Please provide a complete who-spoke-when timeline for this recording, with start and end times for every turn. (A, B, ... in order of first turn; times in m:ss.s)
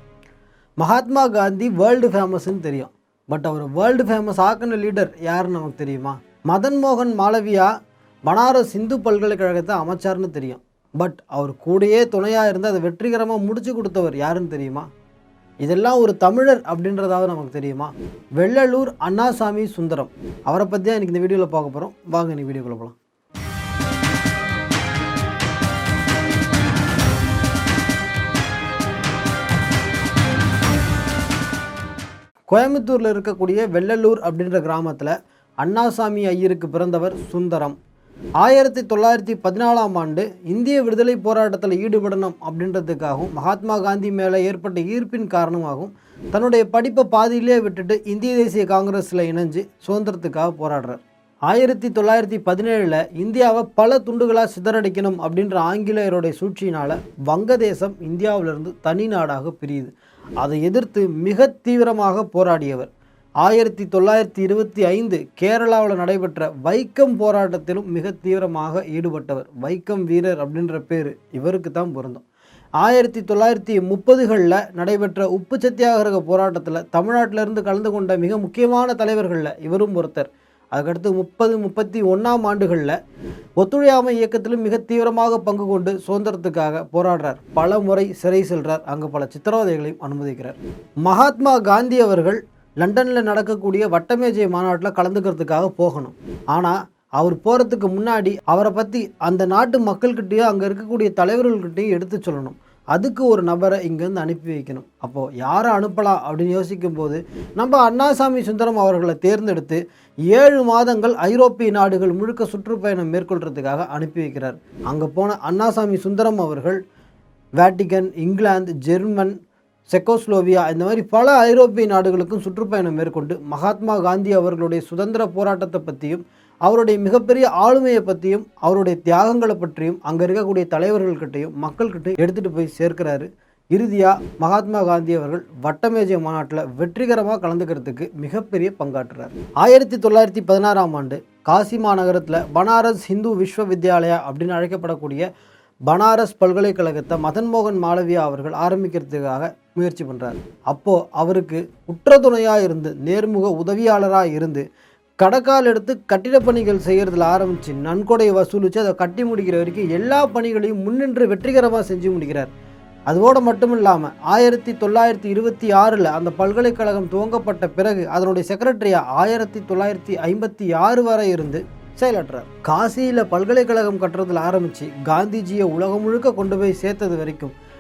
0:00.8-0:07.7 A
0:08.3-0:14.9 A
0:15.6-0:23.0 A
0:32.5-0:37.8 A
0:38.4-1:02.9 A
1:03.4-1:12.2 A
1:12.8-1:23.0 A
1:23.6-1:56.8 A
1:57.6-1:59.3 A
1:59.9-2:25.3 A
2:25.9-2:34.6 A
2:35.2-2:42.5 A
2:43.1-2:57.5 A